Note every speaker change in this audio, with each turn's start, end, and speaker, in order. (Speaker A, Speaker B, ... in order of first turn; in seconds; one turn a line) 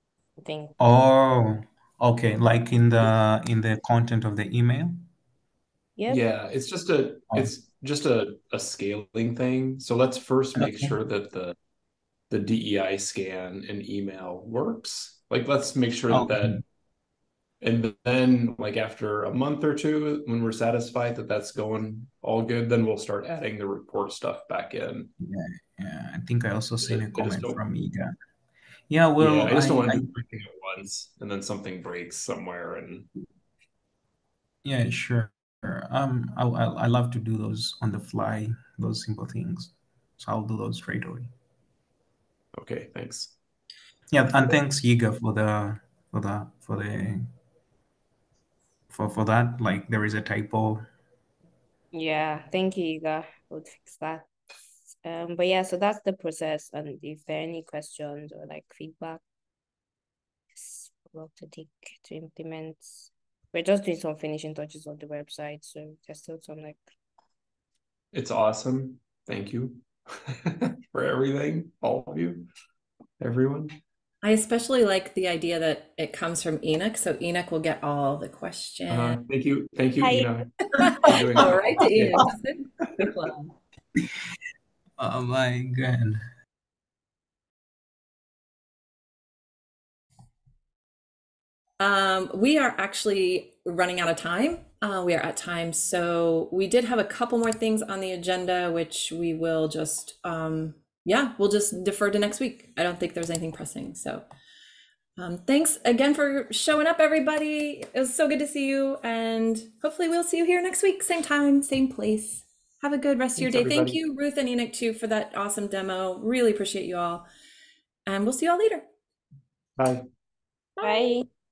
Speaker A: 0.4-0.8
Speaker B: 0.8-5.0
Speaker A: 6.0-6.3
Speaker C: 6.1-11.6
Speaker B: 10.6-10.9
Speaker C: 12.3-16.6
Speaker B: 16.1-16.6
Speaker C: 17.6-25.1
Speaker B: 25.2-28.1
Speaker C: 26.8-27.6
Speaker B: 28.9-30.1
Speaker C: 29.2-33.1
Speaker B: 34.6-41.3
Speaker C: 42.5-43.4
Speaker B: 44.1-47.3
Speaker B: 48.9-50.9
Speaker A: 51.9-54.3
Speaker A: 54.9-59.2
Speaker A: 60.5-66.9
Speaker C: 68.1-72.5
Speaker C: 73.2-73.8
Speaker D: 74.2-79.2
Speaker C: 78.9-82.3
Speaker A: 80.0-80.5
Speaker D: 80.8-83.5
Speaker B: 85.0-86.2
Speaker D: 91.8-104.3
Speaker D: 105.2-117.2
Speaker C: 113.4-114.0
Speaker D: 118.1-118.8
Speaker C: 119.8-120.0
Speaker D: 120.8-121.2
Speaker A: 120.8-121.3